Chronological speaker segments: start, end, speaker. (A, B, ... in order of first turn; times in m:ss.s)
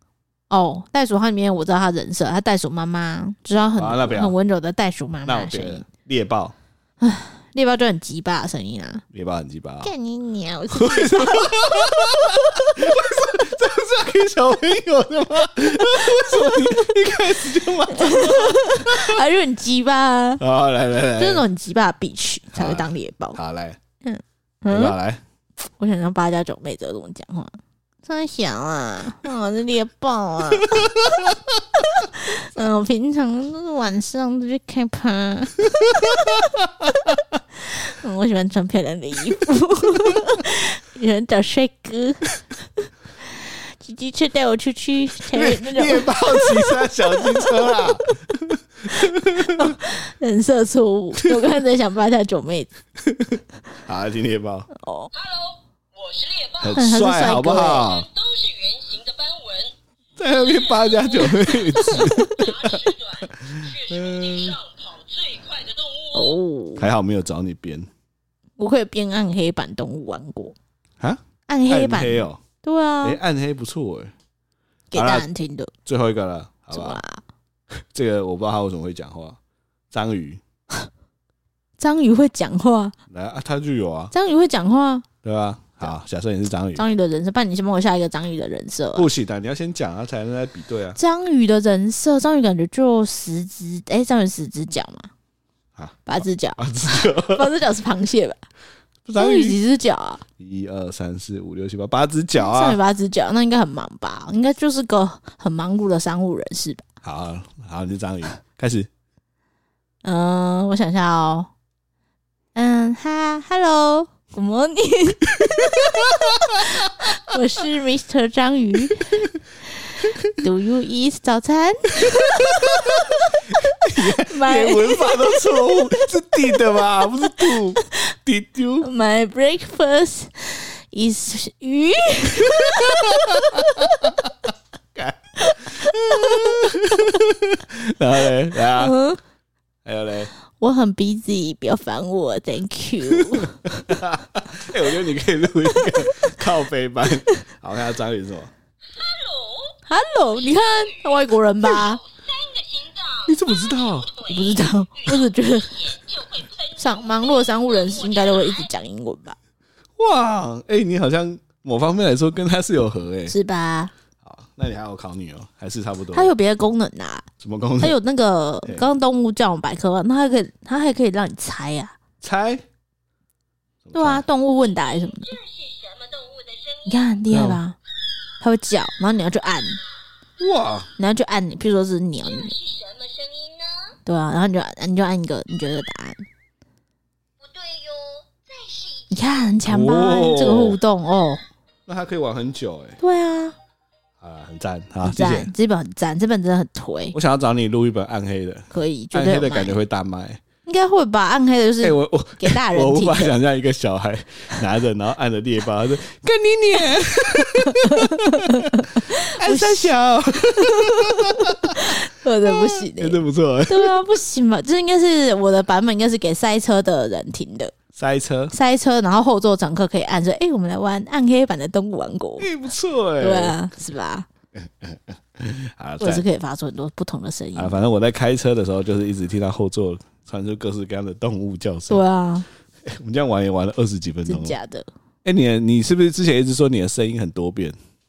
0:00.5-0:05.8 A
0:03.8-0:04.3 B
0:05.2-0:06.5 B
0:07.0-0:09.0 A
0:09.1-0:09.9 B
0:09.8-0:13.0 A
0:10.7-0:19.2 B
0:16.1-0:16.5 A
0:17.9-0:20.4 A
0:20.4-0:21.4 B
0:21.2-0:23.4 A
0:22.5-0:23.8 B
0:24.0-0:25.0 A
0:24.7-0:25.2 B
0:25.8-0:30.9 A
0:30.7-0:31.4 B
0:31.8-0:36.5 A
0:36.8-0:37.1 B
0:37.7-0:42.3 A
0:42.8-0:48.1 A
0:45.3-0:49.9 B
0:48.9-0:52.7 A
0:53.1-0:54.7 B
0:54.7-0:55.1 A
0:55.1-0:56.9 C
0:56.6-0:58.1 B
0:56.7-0:57.9 A
0:57.7-0:59.7 C
1:00.2-1:04.6 B
1:00.3-1:06.4 C
1:06.1-1:06.9 A
1:06.8-1:07.9 B
1:08.6-1:10.6 A
1:11.0-1:12.4 B
1:11.5-1:13.2 A
1:13.0-1:14.1 B
1:14.9-1:15.7 A
1:14.9-1:15.3 B
1:15.8-1:17.0 B
1:16.7-1:17.2 A
1:17.7-1:19.4 B
1:19.9-1:20.4 B
1:21.8-1:22.9 A
1:23.1-1:24.1 B
1:24.1-1:25.0 A
1:25.2-1:26.8 B
1:26.8-1:29.1 A
1:28.9-1:31.0 B
1:31.0-1:35.1 A
1:35.8-1:37.5 B
1:36.1-1:38.4 A
1:39.0-1:39.6 B
1:39.2-1:40.2 A
1:40.4-1:42.8 B
1:42.4-1:46.8 A
1:47.0-1:48.9 B
1:50.0-1:51.5 A
1:52.5-1:59.3 A
1:55.6-1:56.0 B
2:00.0-2:06.0 A
2:02.5-2:08.9 B
2:07.4-2:07.8 A
2:08.8-2:14.2 A
2:12.5-2:14.3 B
2:15.0-2:19.0 B
2:15.4-2:17.2 A
2:18.6-2:19.2 A
2:19.8-2:20.3 B
2:20.6-2:23.7 A
2:23.1-2:28.5 B
2:25.9-2:26.3 A
2:28.9-2:38.7 C
2:29.9-2:32.0 A
2:33.3-2:34.1 B
2:34.3-2:35.9 A
2:36.8-2:39.4 A
2:40.0-2:43.3 B
2:43.3-2:43.9 A
2:44.2-2:46.3 B
2:46.1-2:47.3 A
2:47.4-2:48.0 B
2:47.8-2:52.0 A
2:52.2-2:52.6 B
2:53.8-2:54.2 B
2:53.9-2:55.4 A
2:54.8-2:57.2 C
2:56.8-2:57.8 A
2:57.3-2:57.6 B
2:58.4-2:59.8 A
3:00.4-3:00.9 B
3:01.0-3:02.5 A
3:02.2-3:04.0 C
3:04.0-3:06.2 A
3:07.4-3:09.5 C
3:09.1-3:11.4 A
3:09.6-3:10.8 B
3:11.9-3:13.0 B
3:13.0-3:13.6 A
3:14.2-3:15.5 B
3:15.0-3:17.1 A
3:17.1-3:20.4 B
3:18.7-3:19.8 A
3:20.6-3:23.3 A
3:21.8-3:33.9 B
3:27.4-3:29.9 A
3:30.5-3:37.7 A
3:37.9-3:38.5 B
3:38.5-3:42.5 A
3:42.4-3:43.6 B
3:43.2-3:44.2 A
3:44.6-3:46.2 B
3:46.0-3:47.8 A
3:47.6-3:52.0 B
3:51.9-3:52.5 A
3:52.8-3:54.6 B
3:54.2-3:54.9 A
3:55.2-3:57.8 B